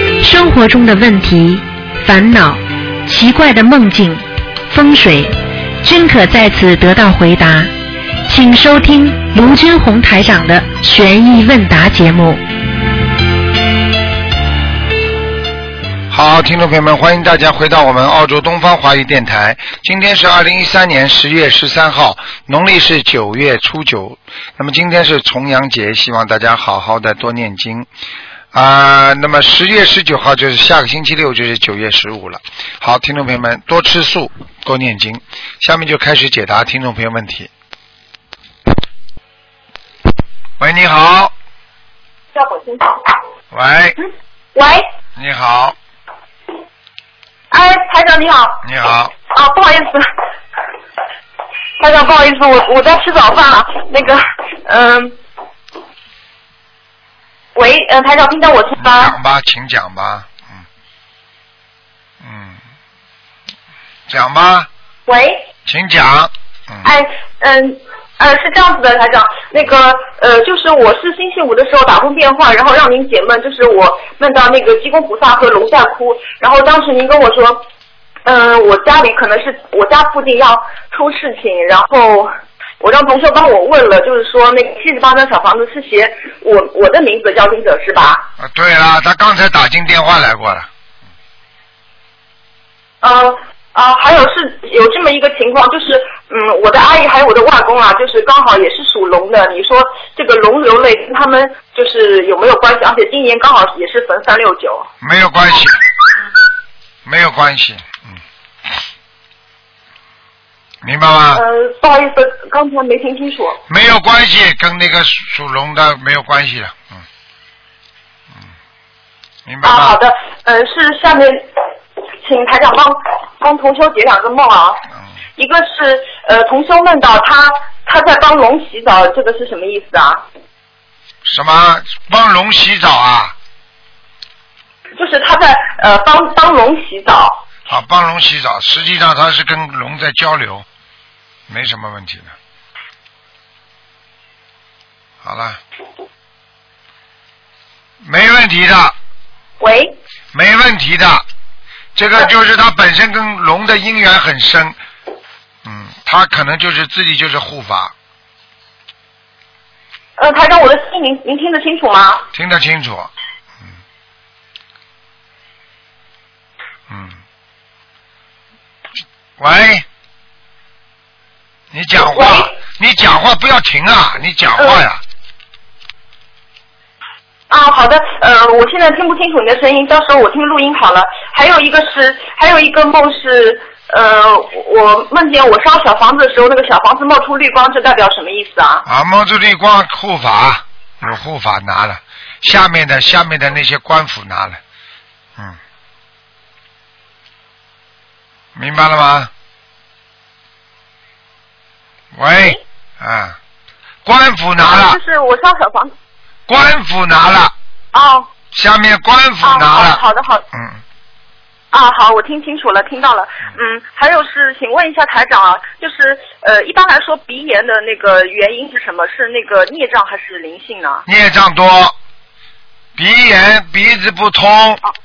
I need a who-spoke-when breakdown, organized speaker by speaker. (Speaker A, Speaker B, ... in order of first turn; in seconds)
Speaker A: 0.2-7.7, 8.2-12.4
Speaker B: 16.1-27.9, 28.5-37.5, 40.6-41.3, 43.5-44.0, 45.1-45.8, 48.6-49.1, 58.8-60.6, 62.2-62.6, 64.1-64.7, 65.7-66.9, 88.4-90.7, 105.0-105.8, 107.0-108.2, 110.8-111.4, 113.7-117.0, 119.5-120.0, 131.2-133.3, 137.7-140.7, 141.5-142.3, 145.2-145.6, 148.0-148.9, 150.3-151.2, 151.9-154.8, 155.6-157.9, 162.3-163.1, 166.9-167.2, 169.4-169.8, 171.7-175.0, 188.8-194.6, 198.5-199.3, 202.1-203.4, 204.0-205.0, 206.5-207.5, 208.5-210.0, 210.5-210.8, 221.1-221.9, 222.9-224.8
Speaker C: 42.3-43.1, 44.5-44.8, 47.5-48.6, 49.3-50.0, 51.8-55.1, 57.5-59.1, 65.1-65.4, 66.8-77.6, 78.2-88.3, 93.0-104.9, 111.3-113.6, 119.6-121.5, 122.2-124.8, 125.4-130.2, 135.0-137.4, 149.6-149.9, 160.2-162.2, 172.0-172.5, 177.5-188.8, 204.6-205.9, 207.9-208.3, 209.4-210.4, 211.7-221.0